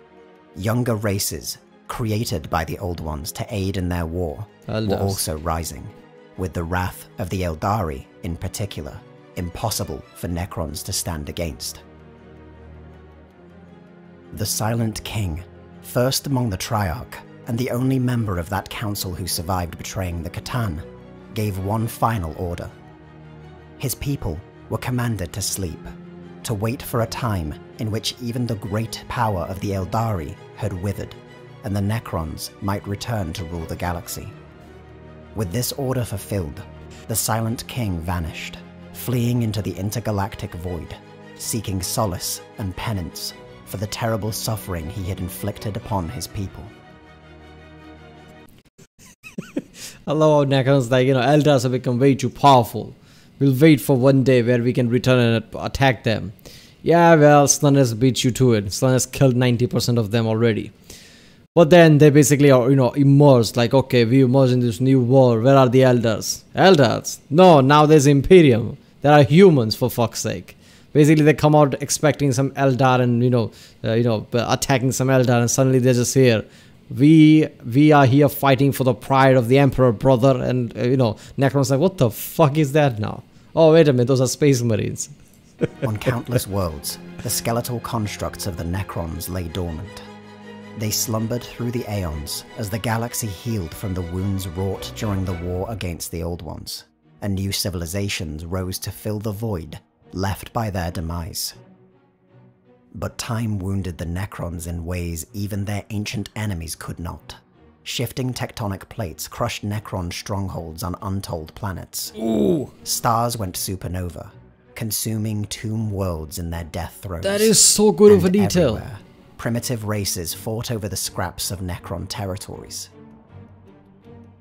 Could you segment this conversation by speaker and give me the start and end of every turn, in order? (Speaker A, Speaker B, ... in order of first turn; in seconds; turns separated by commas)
Speaker A: 0.5-11.8, Speaker B: 4.7-5.2, Speaker A: 14.3-22.7, Speaker A: 23.8-25.9, Speaker A: 26.4-34.3, Speaker A: 35.3-46.7, Speaker B: 49.6-60.7, Speaker B: 61.5-85.8, Speaker A: 85.8-90.0, Speaker A: 90.8-101.6, Speaker A: 102.9-112.1, Speaker B: 112.2-112.7, Speaker A: 112.8-117.5, Speaker B: 117.2-118.8, Speaker A: 118.0-122.9